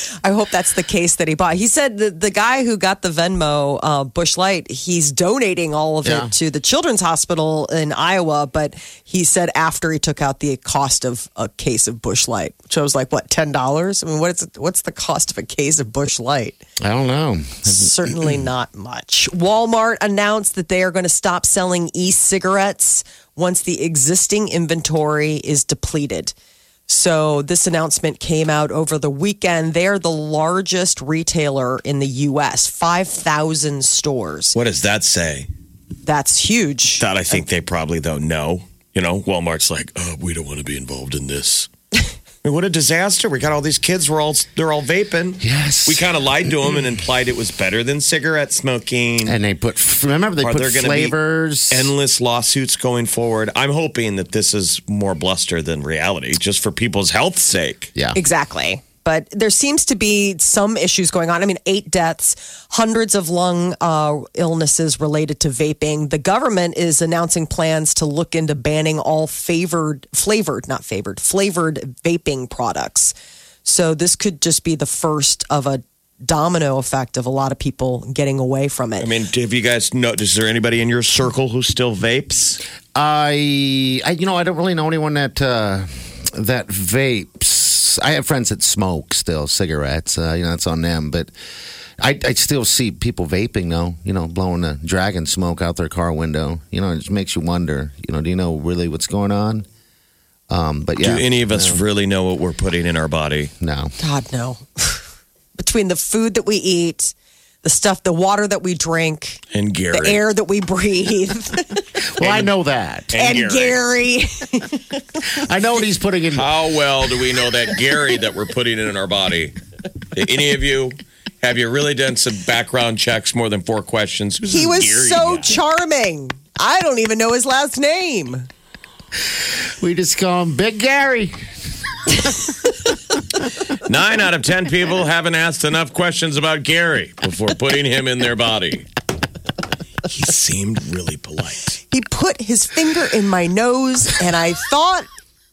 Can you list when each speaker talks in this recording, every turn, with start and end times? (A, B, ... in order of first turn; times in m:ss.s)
0:00.2-0:16.6 A
0:06.0-0:06.3 B
0:16.8-0:18.1 B
0:17.6-0:26.3 A
0:26.9-0:34.6 A
0:34.6-0:35.5 C
0:36.0-0:37.0 A
0:37.0-0:41.7 C
0:42.4-0:49.4 C
0:45.4-0:46.1 B
0:49.2-0:51.9 B
0:50.4-0:51.2 C
0:51.7-0:57.9 C
0:58.0-0:58.2 B
0:58.1-1:13.1 A
1:13.6-1:19.1 A
1:19.0-1:22.6 C
1:23.0-1:31.3 B
1:32.0-1:39.6 B
1:40.5-1:41.8 B
1:41.0-1:43.5 C
1:43.6-1:44.0 B
1:44.0-1:51.9 A
1:49.5-1:50.2 C
1:52.1-1:53.2 B
1:52.2-1:52.5 C
1:53.1-1:53.8 C
1:53.2-1:55.2 A
1:55.3-1:56.5 B
1:56.3-1:59.6 C
2:00.1-2:05.6 C
2:04.5-2:08.5 A
2:09.8-2:11.4 B
2:12.2-2:12.5 B
2:13.8-2:18.9 C
2:20.1-2:21.8 C
2:21.9-2:25.1 A